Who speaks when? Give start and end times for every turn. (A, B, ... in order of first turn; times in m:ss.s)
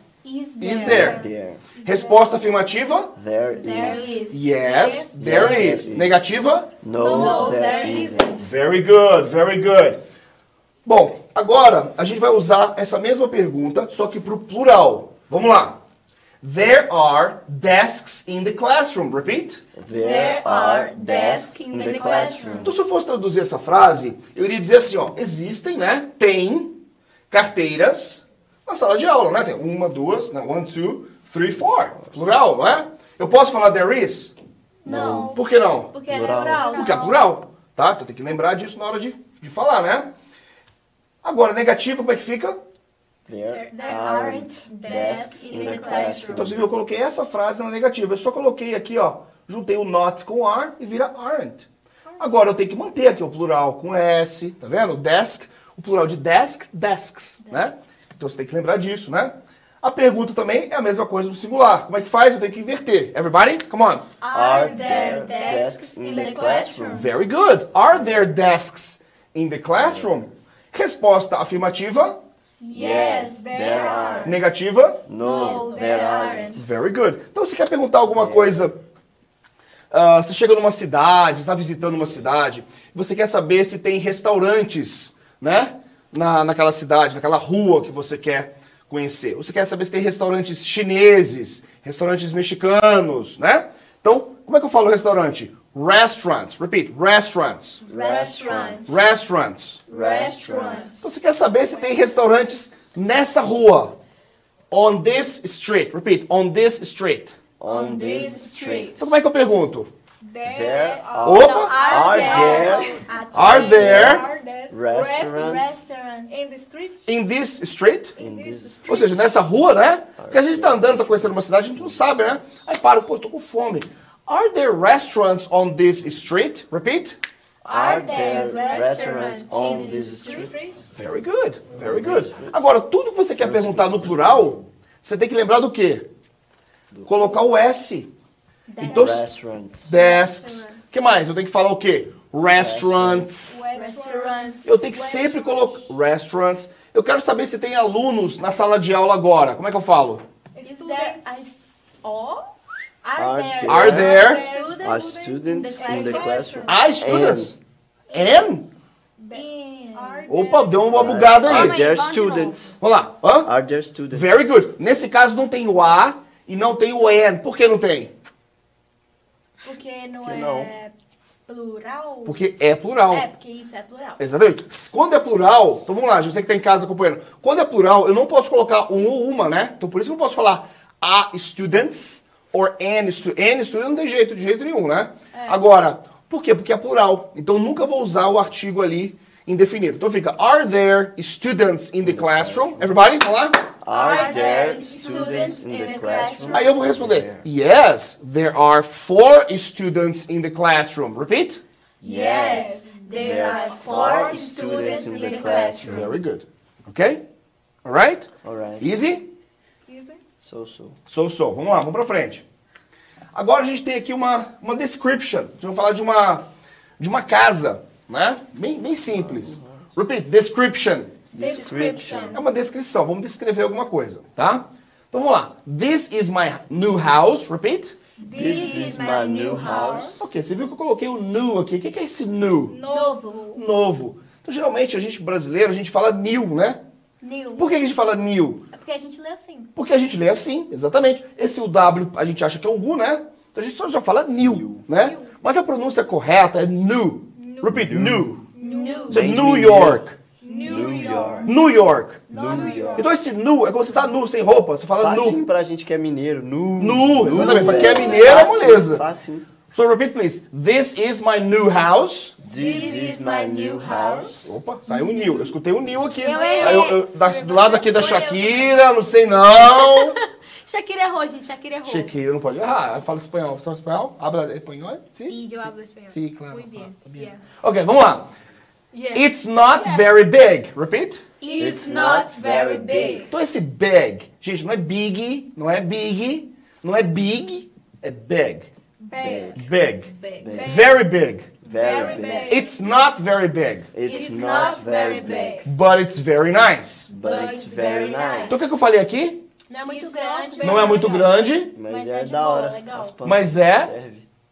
0:00.2-0:01.2 A
0:00.6-0:01.2 B
0:00.7-0:01.6 C
0:01.8-0:02.2 D
0:01.8-0:03.1 B
0:03.2-0:04.2 C
0:03.6-0:04.5 A
0:03.6-0:04.0 D
0:04.3-0:06.8 B
0:04.6-0:05.1 D
0:05.1-0:06.2 C
0:06.8-0:08.3 C
0:07.0-0:08.5 A
0:07.0-0:08.2 E
0:08.4-0:10.0 B
0:10.8-0:15.8 B
0:16.4-0:19.6 B
0:19.8-0:22.7 C
0:19.9-0:22.6 E
0:20.0-0:22.7 A
0:22.6-0:26.8 B
0:27.3-0:34.3 B
0:34.8-0:35.4 A
0:34.8-0:35.4 C
0:34.9-0:36.0 B
0:35.9-0:37.2 A
0:36.0-0:36.8 C
0:36.7-0:40.1 B
0:41.2-0:42.6 B
0:43.2-0:46.6 C
0:43.5-0:46.4 E
0:43.7-0:46.5 A
0:46.3-0:51.7 B
0:52.2-1:04.0 B
0:57.4-0:57.7 A
1:04.2-1:07.0 A
1:04.3-1:06.9 E
1:04.3-1:07.1 C
1:06.1-1:06.6 D
1:06.9-1:12.2 B
1:09.8-1:10.1 C
1:12.6-1:14.3 A
1:12.7-1:14.4 C
1:13.0-1:14.3 D
1:14.2-1:15.0 B
1:15.0-1:16.6 C
1:15.2-1:16.6 A
1:15.3-1:16.4 E
1:16.5-1:18.8 B
1:18.1-1:18.7 C
1:19.9-1:37.8 B
1:37.9-1:39.0 C
1:37.9-1:38.9 A
1:37.9-1:38.8 E
1:38.8-1:39.8 B
1:39.9-1:40.9 C
1:40.0-1:40.9 E
1:40.0-1:40.9 D
1:40.5-1:40.9 A
1:41.0-1:44.0 B
1:44.7-1:47.4 B
1:47.6-1:49.0 C
1:47.7-1:48.9 E
1:47.9-1:48.5 D
1:49.0-1:49.9 B
1:50.2-1:53.0 D
1:50.4-1:55.8 C
1:51.2-1:51.7 B
1:51.6-1:53.0 E
1:51.6-1:54.1 A
1:53.3-1:54.3 B
1:53.7-1:55.5 D
1:55.2-1:56.3 A
1:56.3-1:57.0 D
1:57.1-1:58.2 B
1:58.2-1:59.2 D
1:58.2-1:59.1 C
1:58.9-2:07.2 B
2:00.2-2:02.2 C
2:07.6-2:10.6 C
2:07.7-2:10.4 A
2:07.7-2:10.5 E
2:08.2-2:10.8 D
2:10.9-2:16.1 B
2:11.7-2:12.6 C
2:13.4-2:14.6 C
2:16.9-2:17.3 C
2:17.1-2:18.1 B
2:18.7-2:19.2 A
2:18.8-2:19.2 B
2:18.8-2:19.9 C
2:19.8-2:23.7 B
2:20.0-2:20.3 D
2:22.5-2:23.3 C
2:23.4-2:24.5 D
2:23.7-2:25.2 A
2:24.6-2:30.2 B
2:30.5-2:31.4 D
2:30.6-2:31.6 A
2:33.0-2:36.7 A
2:33.2-2:34.2 C
2:33.6-2:34.4 B
2:34.1-2:36.7 D
2:34.6-2:36.4 E
2:34.8-2:37.5 C
2:36.7-2:37.5 B
2:38.1-2:38.7 B
2:39.2-2:41.2 D
2:39.3-2:40.2 A
2:40.3-2:41.8 B
2:41.0-2:42.8 C
2:41.4-2:42.7 A
2:42.8-2:43.5 B
2:43.4-2:44.3 C
2:44.1-2:48.1 B
2:49.6-2:50.9 A
2:50.2-2:50.7 C
2:51.5-2:52.4 A
2:52.2-2:53.3 B
2:53.1-2:54.2 A
2:54.2-3:13.6 B
3:05.3-3:05.6 A
3:12.0-3:13.0 C
3:13.8-3:17.4 C
3:13.9-3:16.6 E
3:13.9-3:16.6 A
3:14.2-3:15.4 D
3:16.5-3:21.6 B
3:22.0-3:26.1 C
3:22.0-3:26.0 A
3:22.1-3:25.9 E
3:22.2-3:22.9 D
3:25.8-3:27.2 B
3:27.8-3:29.3 B
3:28.4-3:28.9 C
3:29.9-3:30.2 D
3:30.4-3:31.0 C
3:31.1-3:32.4 B
3:33.3-3:36.5 B
3:37.0-3:41.1 B
3:39.2-3:39.8 C
3:41.3-3:42.4 C
3:41.4-3:42.3 D
3:41.5-3:42.2 E
3:42.3-3:48.0 B
3:48.2-3:50.1 D
3:48.3-3:50.2 C
3:48.4-3:50.1 E
3:50.2-3:52.8 B
3:52.7-3:53.2 D
3:52.9-3:53.6 A
3:53.5-3:56.8 B
3:57.2-3:57.8 A
3:57.6-3:58.6 B
3:58.7-3:59.7 A
3:59.8-4:08.4 B
4:04.4-4:04.8 C
4:07.4-4:07.7 D
4:07.7-4:08.4 C
4:08.6-4:09.1 D
4:08.6-4:09.2 A
4:09.1-4:10.2 B
4:09.1-4:10.0 C
4:10.4-4:11.5 D
4:10.5-4:11.4 A
4:10.6-4:11.5 C
4:10.6-4:11.0 E
4:11.4-4:12.3 B
4:12.3-4:13.1 C
4:12.4-4:12.9 A
4:12.4-4:13.0 D
4:12.5-4:12.8 E
4:13.0-4:15.4 B
4:15.0-4:19.5 C
4:16.8-4:19.0 B
4:17.5-4:18.0 D
4:17.9-4:18.2 A
4:19.7-4:22.4 B
4:22.4-4:24.5 C
4:22.6-4:24.2 E
4:22.6-4:24.3 A
4:24.3-4:30.2 B
4:26.2-4:27.0 A
4:26.2-4:28.8 E
4:29.6-4:32.1 E
4:31.8-4:38.3 B
4:35.2-4:37.4 E
4:38.9-4:40.0 E
4:39.1-4:41.2 B
4:41.4-4:42.3 A
4:41.5-4:43.3 E
4:41.6-4:43.3 C
4:43.3-4:48.7 B
4:49.1-4:49.6 D
4:49.2-4:49.6 C
4:49.5-4:51.5 B
4:50.2-4:50.6 E
4:50.4-4:50.8 C
4:50.5-4:50.9 D
4:51.6-4:52.5 C
4:51.7-4:52.6 D
4:51.8-4:52.5 E
4:52.5-4:53.9 B
4:53.9-4:55.6 C
4:54.0-4:55.6 E
4:54.1-4:55.6 D
4:55.6-4:57.1 B
4:57.1-4:58.6 C
4:57.2-4:58.3 D
4:57.2-4:58.4 A
4:57.2-4:58.6 E
4:58.5-4:59.4 B
4:59.7-5:03.1 A
4:59.8-5:01.3 E
5:00.6-5:01.7 B
5:01.7-5:04.2 C
5:03.2-5:03.9 B